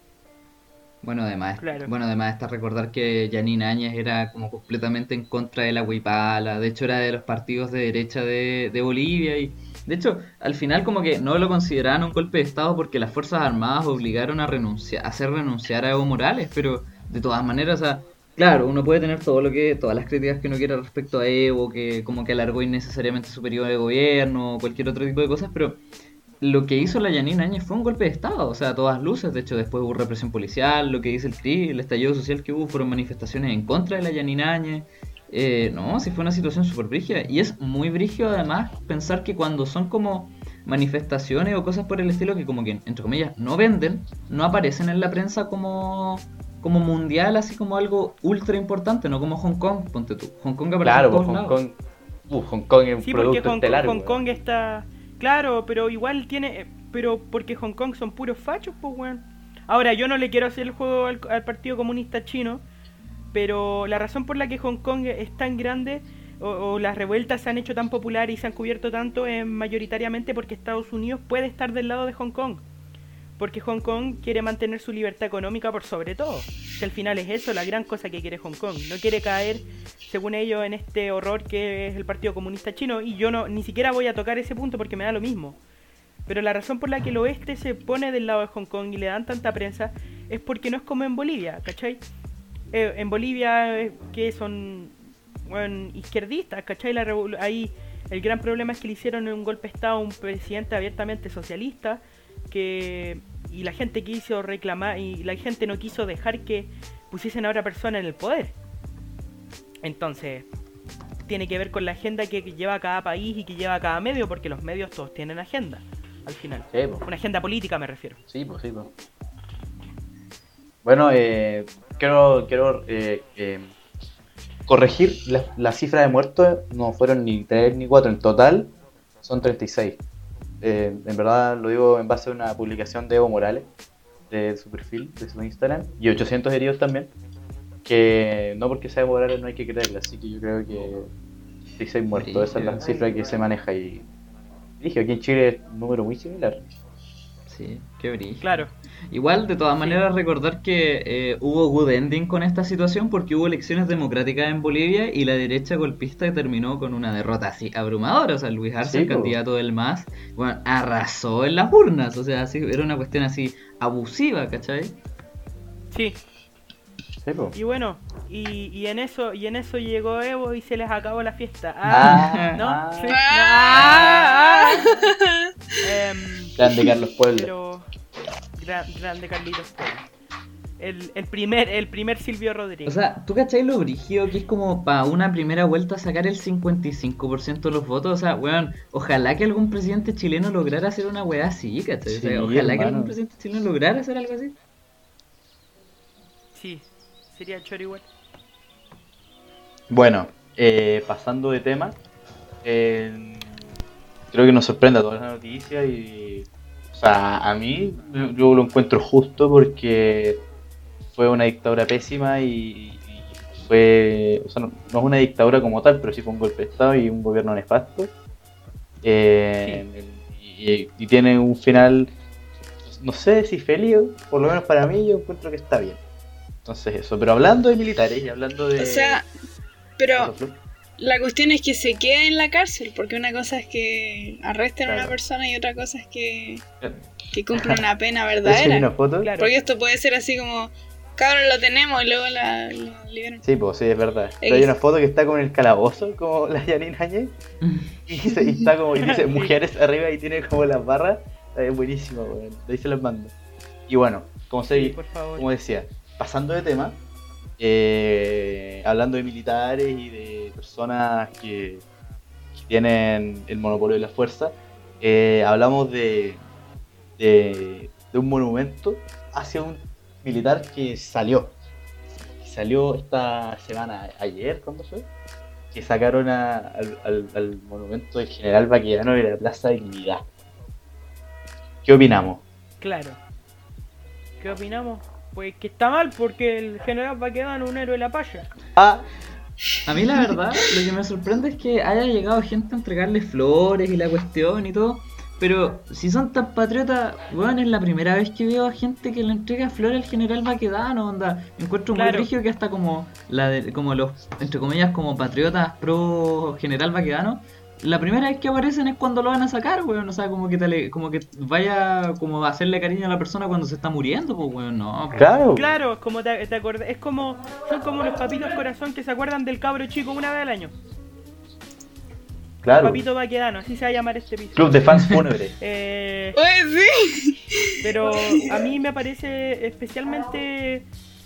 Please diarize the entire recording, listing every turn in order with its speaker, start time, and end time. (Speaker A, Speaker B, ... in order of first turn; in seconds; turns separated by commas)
Speaker A: 1.0-25.8, Speaker B: 1.6-1.9, Speaker A: 26.4-51.6, Speaker C: 50.8-51.8, Speaker C: 52.3-54.2, Speaker B: 53.0-62.6, Speaker B: 63.3-72.6, Speaker B: 73.4-85.6, Speaker B: 86.3-92.0, Speaker B: 92.7-95.0, Speaker B: 95.5-108.5, Speaker B: 109.8-110.5, Speaker B: 111.3-118.2, Speaker C: 116.7-117.1, Speaker C: 118.3-118.9, Speaker C: 120.8-123.7, Speaker C: 124.7-130.0, Speaker C: 130.6-133.7, Speaker C: 134.3-137.1, Speaker C: 137.8-141.1, Speaker C: 141.8-144.1, Speaker A: 142.1-142.9, Speaker C: 144.8-146.6, Speaker A: 147.5-164.9, Speaker B: 148.4-148.7, Speaker C: 158.8-159.4, Speaker B: 165.9-166.2, Speaker C: 167.2-167.6, Speaker B: 167.6-174.9, Speaker C: 171.9-173.2, Speaker A: 171.9-172.5, Speaker D: 173.1-175.5, Speaker B: 175.8-176.6, Speaker C: 176.6-177.5, Speaker B: 177.3-177.9, Speaker B: 178.6-180.1, Speaker B: 180.8-183.0, Speaker A: 182.9-194.6, Speaker C: 192.1-193.2, Speaker B: 196.5-198.1, Speaker C: 199.9-202.0, Speaker C: 202.6-203.6, Speaker C: 204.3-210.4, Speaker C: 211.1-218.2, Speaker C: 219.0-222.1, Speaker C: 222.8-226.0, Speaker C: 226.7-229.2, Speaker D: 228.8-229.3, Speaker D: 230.0-230.3, Speaker C: 230.2-230.6, Speaker D: 231.0-236.6, Speaker C: 234.8-235.2, Speaker D: 237.3-243.4, Speaker C: 237.5-237.8, Speaker C: 238.4-239.3, Speaker B: 239.2-239.5, Speaker C: 243.4-247.3, Speaker D: 244.4-244.7, Speaker C: 248.1-253.3, Speaker B: 248.9-249.5, Speaker C: 253.9-257.0, Speaker B: 254.7-255.4, Speaker C: 257.6-261.9, Speaker C: 262.6-266.4, Speaker C: 267.2-271.5, Speaker C: 272.4-275.1, Speaker C: 275.7-280.2, Speaker C: 281.8-282.4, Speaker B: 282.8-283.2, Speaker B: 284.4-288.5, Speaker C: 288.8-289.1, Speaker A: 289.9-315.4, Speaker B: 301.9-302.3, Speaker C: 315.1-315.7, Speaker B: 315.5-320.7, Speaker C: 322.6-323.0, Speaker B: 322.8-324.9, Speaker C: 324.6-325.6, Speaker A: 324.9-325.2, Speaker B: 325.6-326.4, Speaker D: 326.4-327.8, Speaker B: 327.8-330.9